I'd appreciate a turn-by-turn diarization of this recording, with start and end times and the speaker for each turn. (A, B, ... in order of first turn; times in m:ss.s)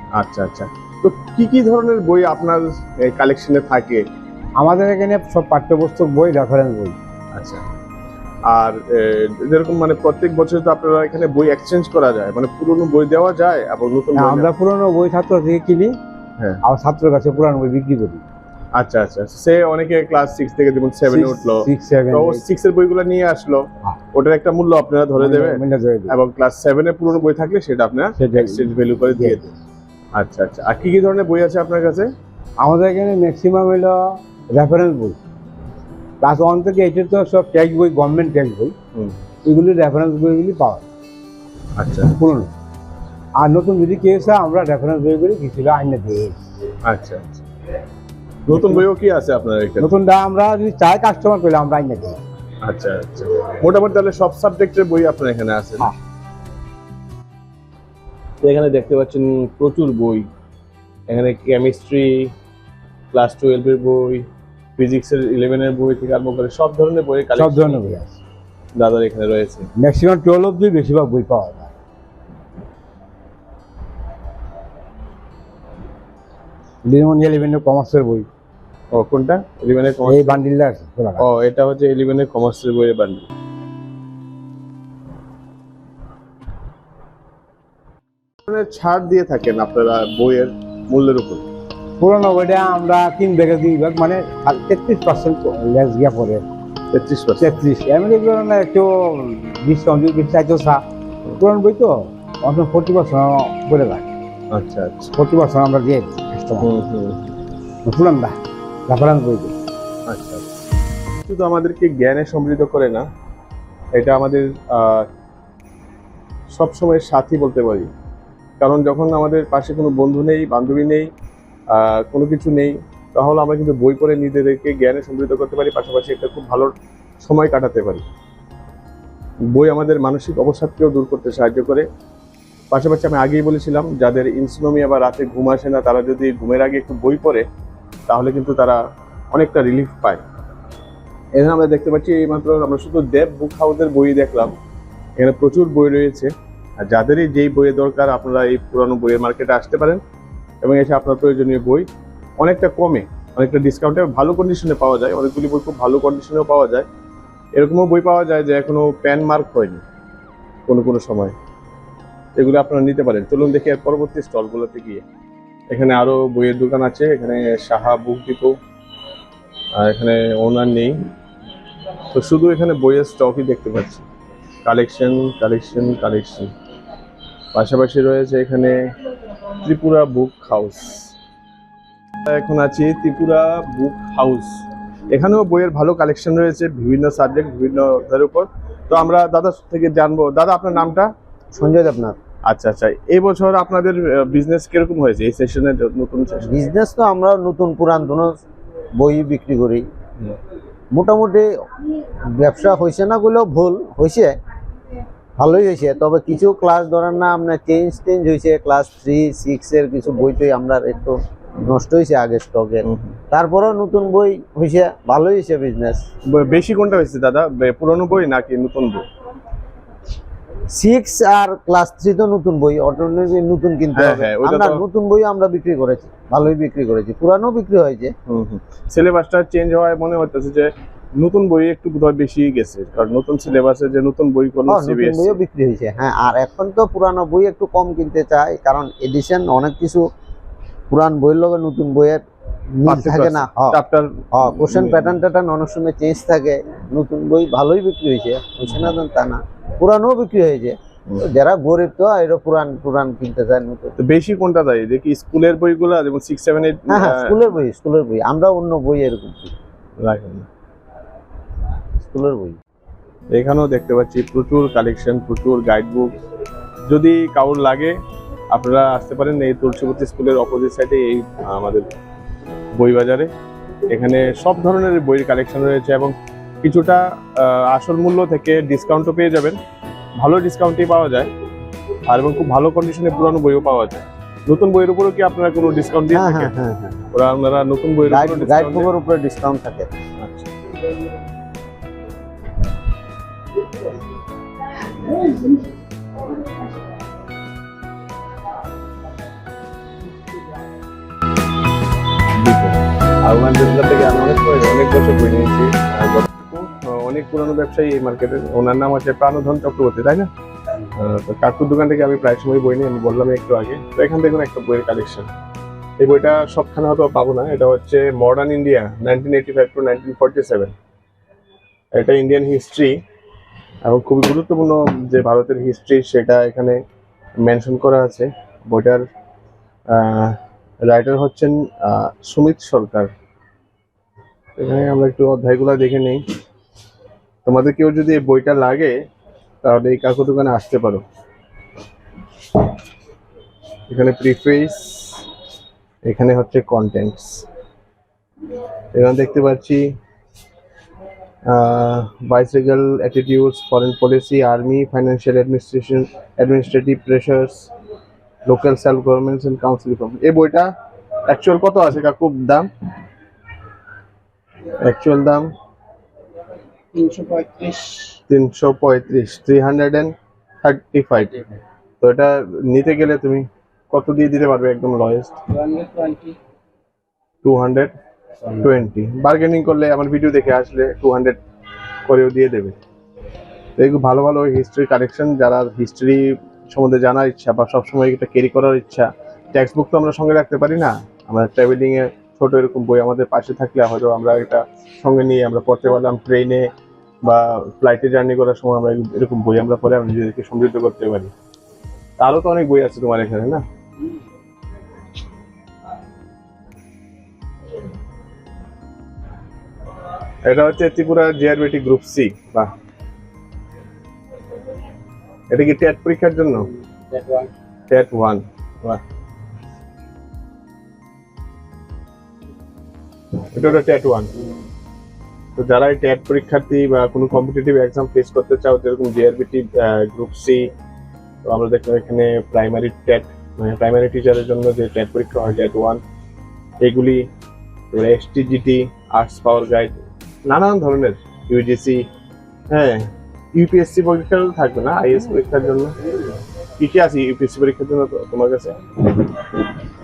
0:00.1-0:04.1 A
0:04.6-0:07.0 B
0:07.3-0:07.6 A
0:08.4-0:14.5 A
0:14.2-0:15.9 B
0:16.6-0:18.2 B
0:18.8-0:29.5 A
0:21.1-0:22.5 B
0:25.2-0:26.1 B
0:28.2-0:29.4 B
0:30.1-0:32.1 A
0:32.6-0:35.2 B
0:36.2-0:38.7 B
0:39.4-0:40.8 B
0:41.8-0:42.2 A
0:42.0-0:42.5 B
0:43.4-0:46.4 B
0:46.8-0:47.4 A
0:48.5-0:49.9 A
0:48.5-0:48.8 B
0:49.8-0:52.2 B
0:52.6-0:55.9 A
0:58.4-1:00.3 A
1:01.1-1:02.3 A
1:03.1-1:04.2 A
1:04.8-1:07.9 A
1:07.4-1:08.2 B
1:08.8-1:09.7 A
1:09.8-1:11.7 B
1:16.8-1:18.3 B
1:18.9-1:20.4 A
1:20.0-1:21.3 B
1:21.2-1:23.3 A
1:28.5-1:31.4 A
1:32.0-1:36.4 B
1:36.9-1:37.6 A
1:37.4-1:40.8 B
1:41.4-1:44.0 B
1:44.5-1:45.2 A
1:45.2-1:46.7 B
1:46.6-1:47.3 A
1:47.8-1:48.3 B
1:48.9-1:49.6 B
1:50.1-1:50.5 A
1:51.3-1:53.0 A
1:53.9-1:55.1 A
1:56.5-1:57.9 A
1:58.6-2:01.1 A
2:01.7-2:08.0 A
2:09.5-2:11.8 A
2:12.7-2:17.4 A
2:18.1-2:18.8 A
2:19.3-2:20.2 A
2:21.3-2:24.5 A
2:25.2-2:30.0 A
2:30.6-2:31.9 A
2:32.4-2:36.9 A
2:37.6-2:39.8 A
2:40.7-2:41.3 A
2:42.4-2:45.0 A
2:45.7-2:48.6 A
2:49.8-2:51.0 A
2:52.1-2:54.0 A
2:54.6-2:56.5 A
2:57.5-2:58.8 A
2:59.6-3:01.1 A
3:02.2-3:11.1 A
3:11.5-3:12.2 C
3:12.5-3:16.6 A
3:16.4-3:18.4 C
3:18.9-3:19.8 C
3:20.9-3:21.5 C
3:22.3-3:24.3 C
3:25.4-3:36.0 C
3:32.8-3:33.1 A
3:36.3-3:39.0 A
3:40.7-3:48.1 C
3:44.0-3:44.8 A
3:48.3-3:55.4 A
3:54.7-4:00.1 C
4:00.9-4:02.2 C
4:02.8-4:03.8 C
4:02.8-4:05.2 A
4:04.3-4:14.0 C
4:14.0-4:17.4 A
4:16.9-4:19.5 C
4:20.0-4:20.4 A
4:22.0-4:22.5 C
4:23.3-4:26.1 A
4:26.9-4:27.9 A
4:28.5-4:31.8 A
4:32.7-4:33.3 A
4:33.9-4:39.6 A
4:40.2-4:41.3 A
4:42.0-4:46.5 A
4:46.1-4:47.0 C
4:47.1-4:48.9 A
4:48.0-4:49.9 C
4:50.2-4:50.5 A
5:02.4-5:10.3 A
5:10.9-5:15.3 A
5:16.0-5:20.7 A
5:21.9-5:23.0 A
5:23.8-5:26.8 A
5:27.4-5:29.0 A
5:29.9-5:33.1 A
5:34.6-5:36.2 A
5:37.4-5:39.0 A
5:39.6-5:41.0 A
5:43.9-5:45.2 A
5:46.0-5:47.4 A
5:48.9-5:49.9 A
5:51.4-5:57.7 A
5:58.4-6:00.7 A
6:01.3-6:02.7 A
6:04.8-6:05.5 A
6:06.9-6:08.2 D
6:08.3-6:11.4 A
6:12.0-6:15.3 A
6:15.5-6:16.4 D
6:17.4-6:17.9 A
6:18.6-6:21.4 A
6:22.1-6:22.8 A
6:23.8-6:36.7 A
6:37.2-6:41.3 A
6:42.2-6:43.6 A
6:50.4-6:52.7 A
6:55.5-6:56.7 A
6:57.1-6:57.5 D
6:57.9-6:59.0 A
7:03.5-7:04.3 A
7:05.6-7:10.7 A
7:11.4-7:16.0 A
7:16.8-7:17.3 A
7:17.9-7:22.1 A
7:22.7-7:26.0 A
7:26.8-7:28.8 A